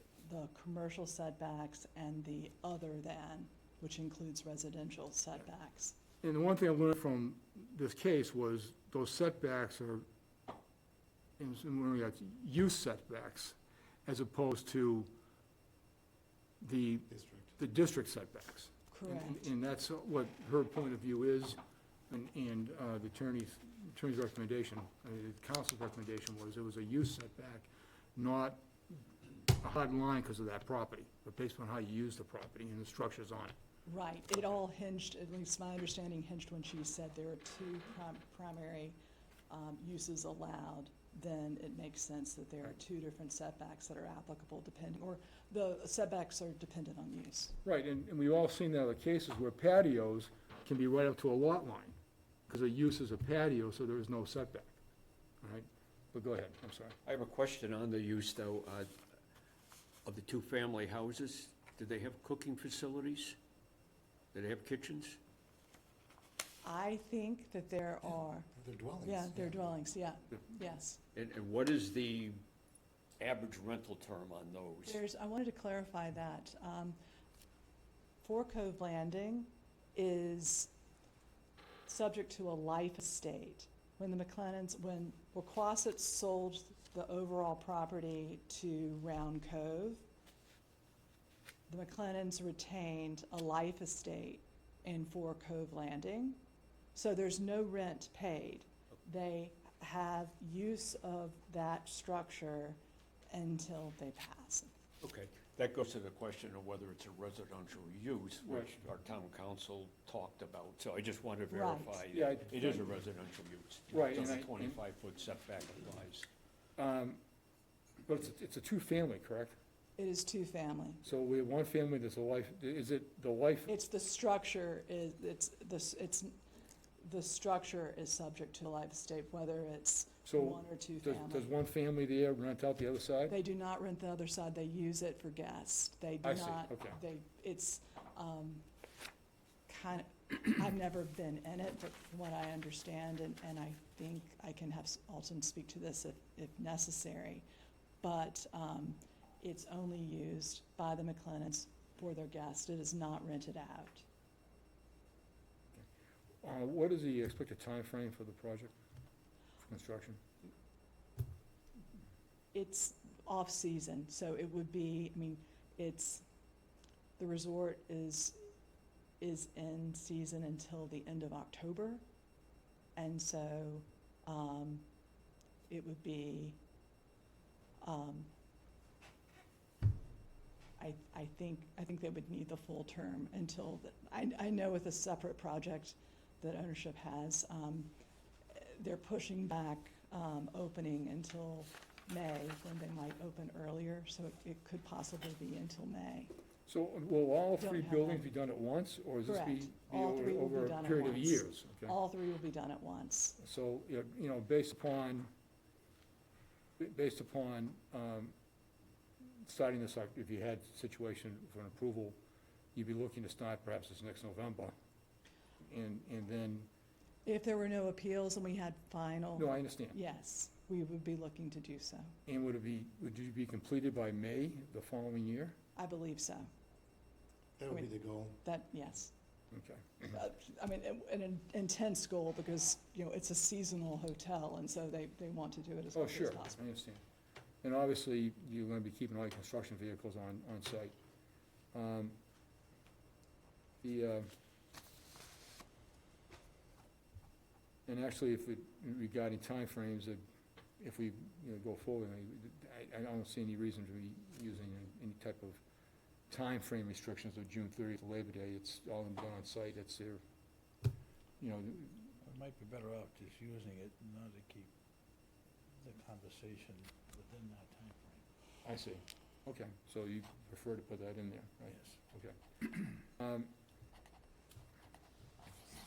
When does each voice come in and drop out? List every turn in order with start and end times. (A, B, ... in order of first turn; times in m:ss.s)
0:00.2-0:06.0 A
0:06.2-0:10.1 B
0:11.4-0:15.1 B
0:16.6-0:21.6 B
0:17.1-0:17.6 C
0:18.9-0:19.4 A
0:22.1-0:28.6 B
0:29.5-0:33.6 B
0:33.9-0:39.0 A
0:39.5-0:47.6 A
0:47.6-0:52.0 B
0:52.5-0:54.7 B
0:55.4-0:57.0 B
0:57.0-0:58.9 D
1:00.0-1:03.4 D
1:04.3-1:05.2 D
1:06.6-1:08.5 A
1:08.6-1:09.7 C
1:09.0-1:11.0 A
1:11.1-1:12.4 D
1:13.2-1:15.0 D
1:14.9-1:17.0 A
1:18.2-1:20.7 A
1:21.9-1:30.0 A
1:31.7-1:36.4 A
1:37.0-1:42.8 A
1:43.3-1:44.7 A
1:45.0-1:56.3 D
1:48.4-1:48.7 B
1:51.5-1:52.0 A
1:52.1-1:52.9 B
1:53.9-1:54.8 B
1:56.8-1:57.2 B
1:58.1-1:59.6 B
2:00.0-2:01.0 A
2:01.0-2:03.7 B
2:03.7-2:06.3 A
2:07.0-2:11.5 A
2:10.3-2:13.4 B
2:13.3-2:18.6 A
2:16.2-2:17.0 B
2:19.7-2:27.4 A
2:28.0-2:34.0 A
2:36.4-2:38.7 B
2:39.7-2:40.2 B
2:42.5-2:46.2 A
2:47.2-2:48.4 A
2:49.2-2:52.0 A
2:53.0-2:54.9 A
2:55.7-2:56.6 A
2:57.8-2:58.3 A
3:00.8-3:07.9 A
3:08.5-3:16.3 A
3:16.7-3:22.0 B
3:17.6-3:18.3 A
3:19.3-3:23.4 A
3:23.4-3:25.3 B
3:26.8-3:28.3 B
3:29.4-3:32.2 B
3:32.7-3:34.7 B
3:35.6-3:36.7 B
3:37.3-3:42.1 A
3:39.4-3:40.0 B
3:42.3-3:45.6 B
3:45.8-3:46.5 A
3:47.6-3:48.4 C
3:48.4-3:49.1 A
3:49.5-3:50.2 B
3:50.1-3:56.7 A
3:55.9-3:57.0 B
3:57.6-4:01.0 B
4:01.7-4:02.2 B
4:03.8-4:04.3 B
4:07.9-4:10.2 B
4:10.8-4:15.6 B
4:16.3-4:20.2 B
4:21.4-4:22.2 B
4:22.2-4:24.7 E
4:25.8-4:28.2 E
4:28.6-4:33.5 B
4:31.6-4:32.0 E